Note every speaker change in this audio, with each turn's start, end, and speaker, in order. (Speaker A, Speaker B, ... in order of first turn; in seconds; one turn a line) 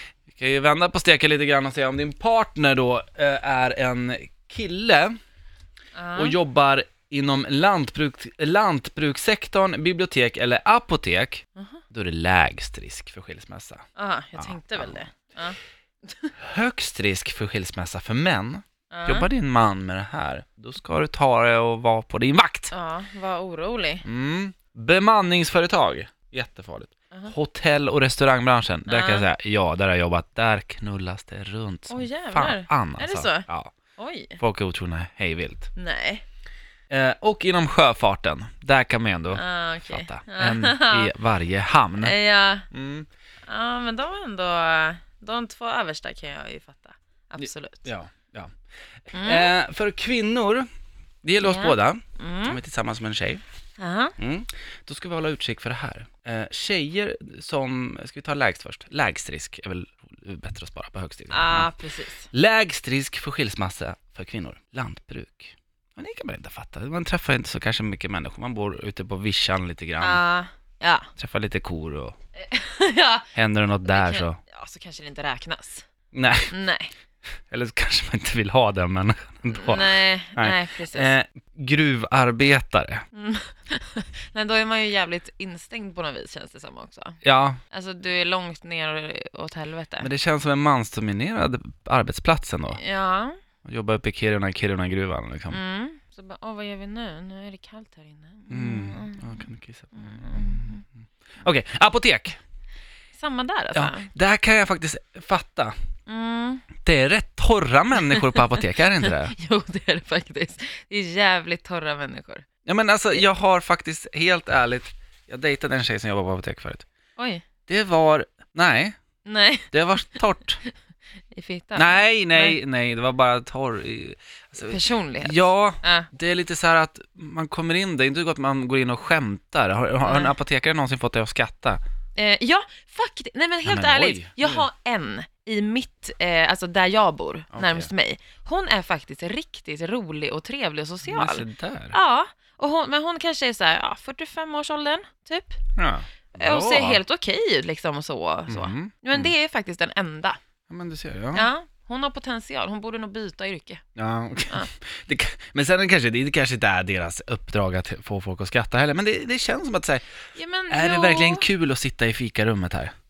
Speaker A: 0.3-5.2
Speaker B: 5.9-6.4
Speaker A: 6.2-13.8
Speaker B: 11.6-11.8
Speaker B: 14.0-16.3
Speaker A: 14.4-15.1
Speaker A: 16.4-22.7
Speaker B: 18.9-19.3
Speaker B: 22.7-24.1
Speaker A: 24.0-33.7
Speaker B: 28.9-29.3
Speaker B: 31.9-33.5
Speaker B: 34.0-34.4
Speaker A: 34.4-35.7
Speaker B: 35.8-36.2
Speaker A: 36.9-42.1
Speaker B: 39.3-41.1
Speaker B: 42.0-42.7
Speaker A: 42.7-43.1
Speaker B: 43.5-47.9
Speaker A: 47.4-48.5
Speaker A: 49.1-50.7
Speaker B: 49.1-49.5
Speaker A: 51.2-53.4
Speaker B: 51.4-52.6
Speaker B: 53.8-54.1
Speaker A: 54.2-61.7
Speaker B: 61.3-62.3
Speaker A: 62.3-70.2
Speaker B: 70.0-71.1
Speaker A: 71.2-72.2
Speaker B: 72.3-73.3
Speaker A: 73.3-74.4
Speaker B: 73.8-75.9
Speaker A: 76.1-76.5
Speaker B: 76.5-76.9
Speaker A: 77.5-83.0
Speaker B: 79.5-81.1
Speaker B: 83.1-87.2
Speaker A: 87.2-87.6
Speaker B: 87.7-90.1
Speaker A: 90.0-92.8
Speaker B: 92.8-93.3
Speaker A: 93.7-95.6
Speaker B: 95.5-99.4
Speaker A: 98.5-100.7
Speaker B: 100.0-100.8
Speaker A: 101.4-102.4
Speaker B: 103.1-104.1
Speaker A: 103.7-105.7
Speaker B: 106.1-106.7
Speaker A: 106.8-109.3
Speaker B: 108.1-108.4
Speaker B: 109.0-112.5
Speaker A: 112.7-116.9
Speaker B: 117.2-117.5
Speaker A: 117.7-119.0
Speaker B: 119.2-119.7
Speaker A: 119.7-120.6
Speaker B: 121.3-122.6
Speaker A: 121.8-131.8
Speaker B: 124.7-126.1
Speaker B: 130.1-130.3
Speaker B: 132.2-145.6
Speaker A: 133.7-134.7
Speaker A: 137.5-137.9
Speaker A: 141.0-142.0
Speaker A: 145.8-147.0
Speaker B: 146.4-150.4
Speaker A: 148.5-149.3
Speaker A: 150.7-151.5
Speaker B: 151.3-153.8
Speaker A: 154.0-160.1
Speaker B: 160.3-161.5
Speaker A: 160.7-162.9